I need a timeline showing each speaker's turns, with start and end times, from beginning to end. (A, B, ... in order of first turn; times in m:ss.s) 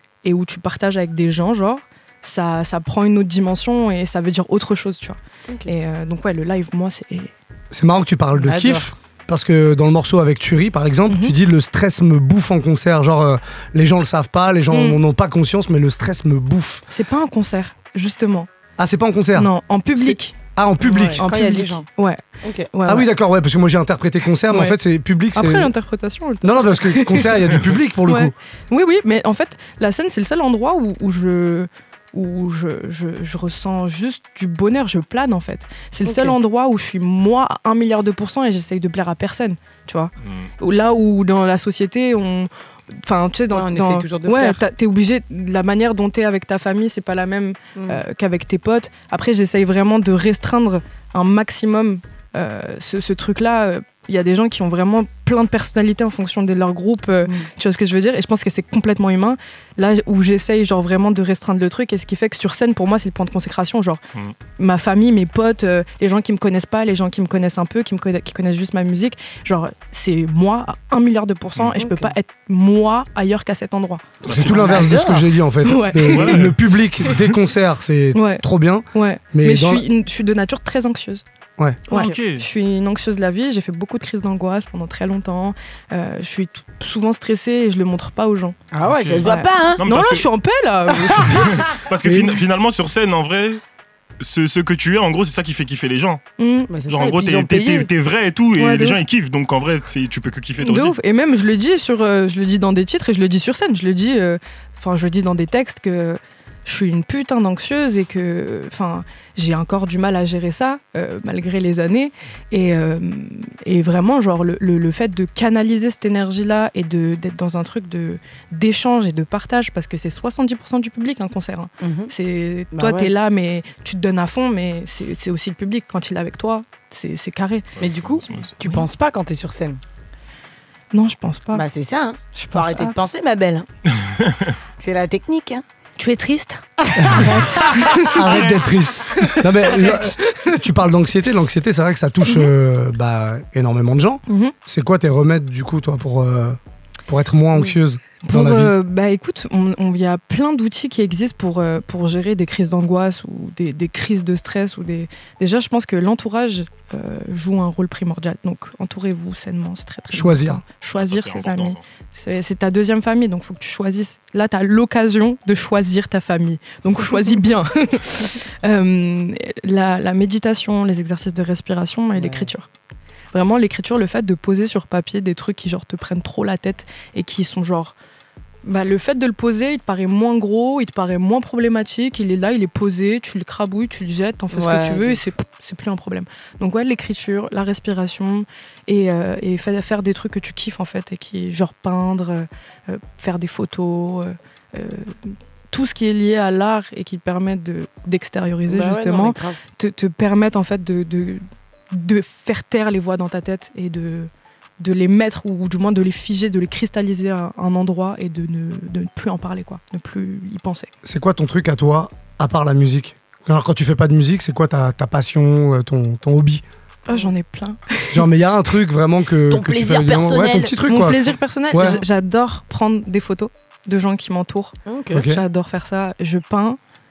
0:00.2-0:07.3 A
0:07.7-0:16.9 B
0:08.4-0:08.9 C
0:11.1-0:11.4 A
0:14.7-0:15.0 A
0:16.9-0:18.5 A
0:18.8-0:21.2 B
0:19.4-0:20.4 A
0:20.8-0:21.9 C
0:21.2-0:23.1 A
0:22.4-0:22.7 C
0:22.9-0:25.7 B
0:24.5-0:24.8 A
0:25.4-0:42.5 A
0:26.4-0:28.3 B
0:36.0-0:36.4 C
0:40.2-0:40.5 D
0:43.0-1:04.0 A
0:43.5-0:44.6 C
0:47.8-0:48.0 C
1:04.6-1:14.1 A
1:11.8-1:12.1 C
1:14.2-1:19.8 B
1:14.2-1:15.0 D
1:14.3-1:15.3 C
1:15.6-1:16.5 A
1:16.1-1:17.4 D
1:18.1-1:21.2 A
1:21.6-1:21.8 B
1:21.9-1:28.6 A
1:21.9-1:22.4 D
1:28.7-1:29.8 C
1:28.8-1:29.3 D
1:29.2-1:31.7 A
1:29.8-1:30.2 D
1:31.0-1:31.6 C
1:31.3-1:33.6 D
1:34.2-1:36.2 D
1:36.4-1:36.7 A
1:36.7-1:37.9 C
1:36.9-1:41.0 D
1:38.6-1:39.0 A
1:40.6-2:07.7 A
2:01.8-2:02.1 C
2:02.7-2:03.1 C
2:07.8-2:08.5 D
2:07.8-2:09.8 C
2:08.6-2:08.9 A
2:10.9-2:11.7 A
2:11.5-2:13.7 C
2:12.4-2:13.0 A
2:14.0-2:14.5 D
2:14.8-2:15.6 C
2:16.0-2:18.2 A
2:16.9-2:17.8 C
2:17.0-2:17.5 B
2:18.0-2:28.8 B
2:18.1-2:19.4 D
2:19.2-2:20.6 A
2:24.3-2:24.5 A
2:28.2-2:52.6 A
2:40.1-2:40.6 B
2:41.0-2:41.8 D
2:52.1-2:52.5 C
2:53.3-2:58.0 A
2:58.6-3:30.9 A
3:04.5-3:05.2 C
3:18.7-3:19.6 C
3:31.0-3:36.6 B
3:37.1-3:38.3 A
3:38.1-3:42.0 B
3:39.5-3:40.8 C
3:40.8-3:46.8 A
3:44.9-3:45.3 C
3:45.1-3:45.4 B